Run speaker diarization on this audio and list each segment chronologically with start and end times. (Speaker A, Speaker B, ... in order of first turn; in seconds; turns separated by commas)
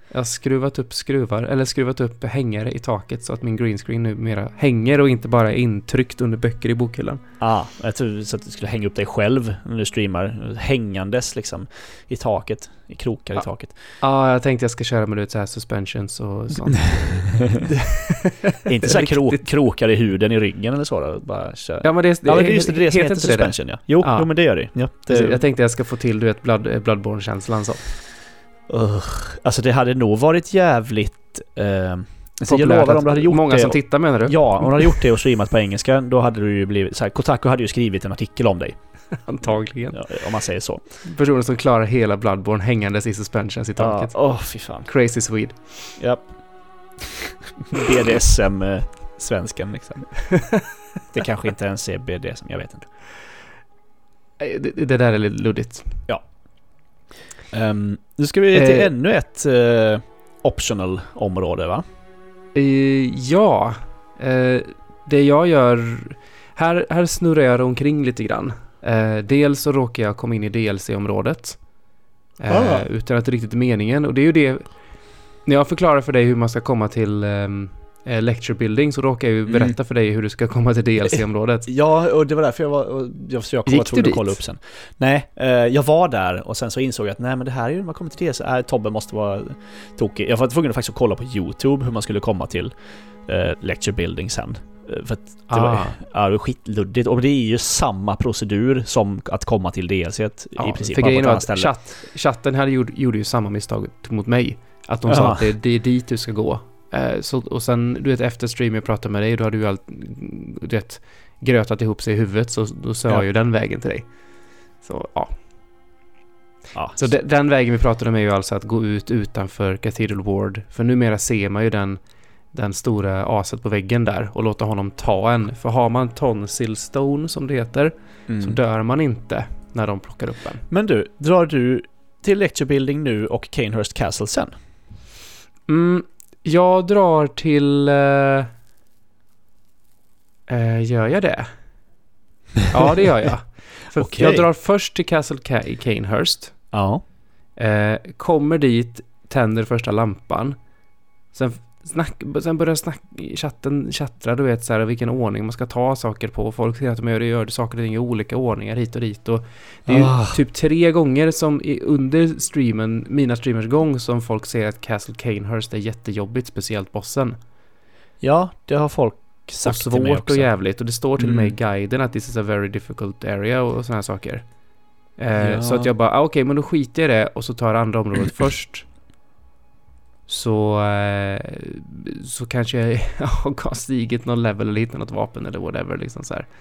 Speaker A: 0.1-7.2, Speaker B: 7.4-13.8, Speaker A: 14.0-19.4, Speaker B: 16.9-17.6, Speaker B: 18.6-25.4, Speaker A: 21.8-24.4, Speaker A: 24.9-27.8, Speaker B: 28.7-38.8, Speaker A: 32.5-35.0, Speaker A: 39.2-40.1, Speaker B: 39.9-40.8, Speaker A: 41.0-44.1, Speaker B: 43.8-44.9, Speaker A: 44.8-45.9, Speaker B: 46.0-46.3, Speaker B: 47.6-50.2, Speaker A: 50.3-50.6, Speaker B: 51.1-52.9, Speaker A: 54.4-56.0, Speaker B: 57.5-61.8, Speaker A: 58.5-58.9, Speaker A: 62.5-71.6, Speaker A: 72.4-74.7, Speaker B: 72.5-72.8, Speaker A: 75.4-81.7, Speaker B: 79.5-79.8, Speaker B: 81.7-92.7, Speaker A: 83.7-84.4, Speaker B: 93.2-101.7, Speaker A: 95.5-96.0, Speaker A: 100.6-114.0, Speaker B: 105.1-105.4, Speaker A: 114.8-115.3, Speaker B: 116.7-117.1, Speaker A: 117.0-122.0, Speaker A: 122.5-130.6, Speaker B: 128.3-128.6, Speaker B: 130.7-134.5, Speaker A: 135.7-138.5, Speaker A: 140.5-141.5, Speaker A: 142.7-146.6, Speaker B: 143.9-144.5, Speaker B: 146.7-147.0, Speaker A: 147.6-150.6, Speaker A: 151.3-167.3, Speaker B: 159.9-160.4, Speaker B: 168.2-170.5, Speaker A: 169.6-174.4, Speaker B: 171.2-171.5, Speaker A: 175.2-178.8, Speaker B: 175.4-175.9, Speaker A: 180.3-186.5